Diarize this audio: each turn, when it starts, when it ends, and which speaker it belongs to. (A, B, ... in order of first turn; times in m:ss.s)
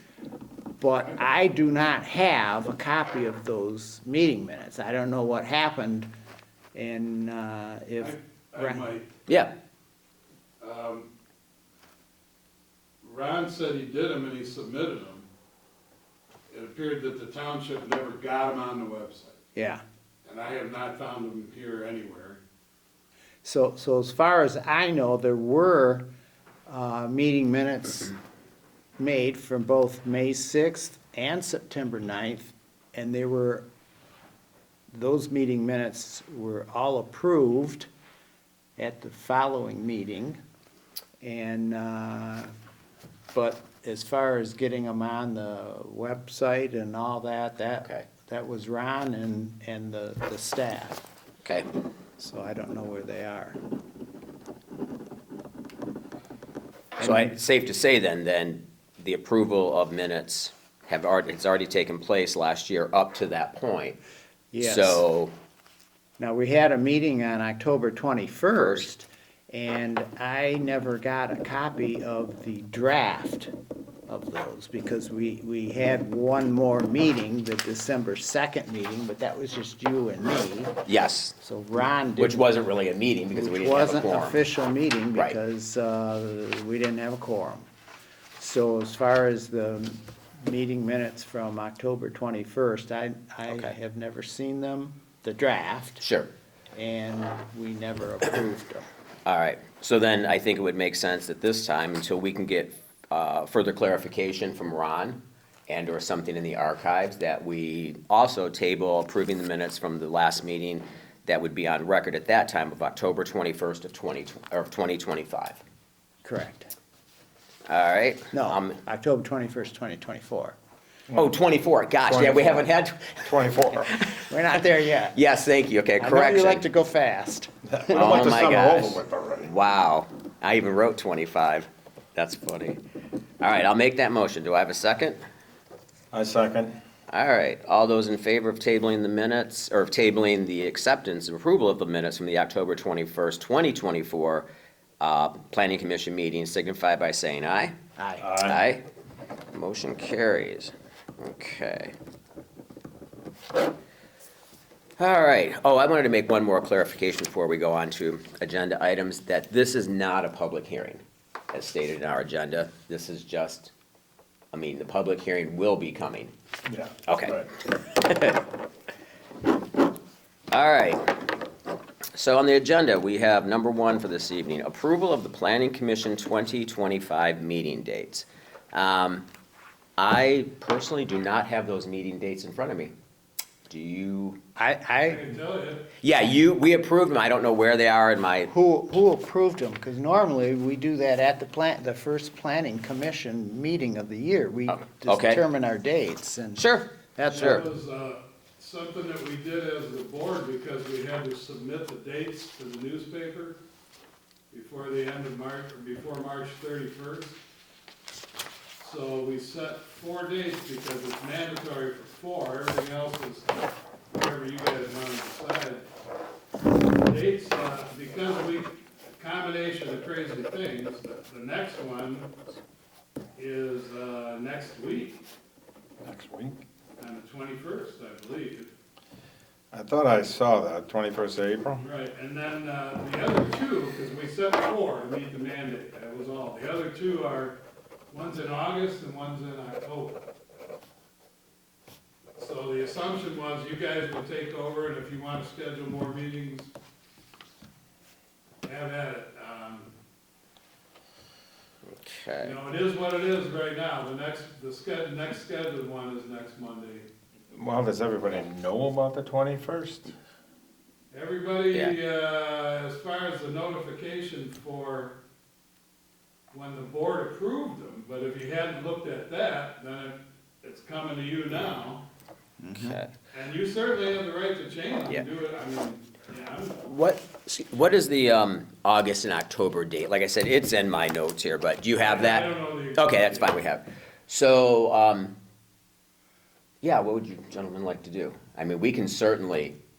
0:00.8-0:06.1 A
0:06.7-0:08.8 A
0:08.0-0:09.1 B
0:09.3-0:09.5 C
0:10.6-0:11.1 B
0:13.0-0:15.3 B
0:16.5-0:19.4 B
0:19.5-0:19.8 A
0:20.2-0:22.4 B
0:23.4-0:26.1 A
0:26.6-0:28.1 A
0:29.0-0:33.7 A
0:34.9-0:37.9 A
0:38.8-0:40.4 A
0:41.2-0:42.5 A
0:43.3-0:51.0 A
0:52.2-0:53.6 A
0:57.0-1:04.0 C
0:57.0-0:57.3 A
1:04.5-1:05.0 A
1:04.6-1:05.3 C
1:06.2-1:13.5 A
1:08.5-1:08.9 C
1:14.1-1:20.7 A
1:20.8-1:21.3 C
1:21.4-1:22.4 A
1:22.2-1:24.4 C
1:23.3-1:27.7 A
1:25.1-1:25.4 C
1:28.4-1:36.0 A
1:33.5-1:33.7 C
1:36.0-1:36.3 C
1:36.7-1:38.8 A
1:39.2-1:55.6 C
1:56.2-1:56.7 A
1:57.7-1:58.8 C
1:58.3-2:00.6 A
2:01.1-2:01.4 D
2:01.2-2:03.3 C
2:02.0-2:02.7 D
2:03.2-2:04.0 D
2:03.9-2:04.3 C
2:04.1-2:05.2 A
2:05.1-2:06.6 C
2:06.0-2:08.2 A
2:07.7-2:09.5 D
2:07.9-2:12.8 C
2:13.4-2:15.2 C
2:16.1-2:16.8 D
2:17.1-2:24.5 C
2:25.0-2:27.7 C
2:28.0-2:28.3 A
2:28.2-2:28.6 D
2:28.4-2:28.8 C
2:29.5-2:31.9 C
2:35.0-2:41.0 C
2:41.5-2:43.7 C
2:44.5-2:46.3 C
2:46.7-2:47.5 D
2:47.1-2:48.4 C
2:50.5-2:51.0 C
2:52.1-2:59.3 C
3:00.0-3:02.9 C
3:03.7-3:04.4 C
3:04.6-3:05.4 A
3:05.1-3:05.9 B
3:06.0-3:08.5 C
3:08.5-3:17.6 A
3:14.7-3:15.4 C
3:16.6-3:17.6 C
3:17.3-3:23.6 B
3:24.5-3:27.4 B
3:28.8-3:35.8 B
3:37.0-3:42.3 B
3:43.4-3:45.2 B
3:46.0-3:46.6 D
3:47.0-3:48.7 B
3:49.7-3:51.8 D
3:51.8-3:57.6 B
3:58.1-4:00.2 B
4:02.4-4:06.7 B
4:08.6-4:09.9 B
4:11.8-4:12.5 C
4:12.4-4:17.1 B
4:17.5-4:20.1 D
4:21.1-4:25.2 B
4:26.5-4:32.0 B
4:32.6-4:33.0 A
4:32.7-4:33.1 C
4:33.3-4:36.8 B
4:36.8-4:45.4 C
4:42.0-4:43.6 B
4:46.8-4:49.8 C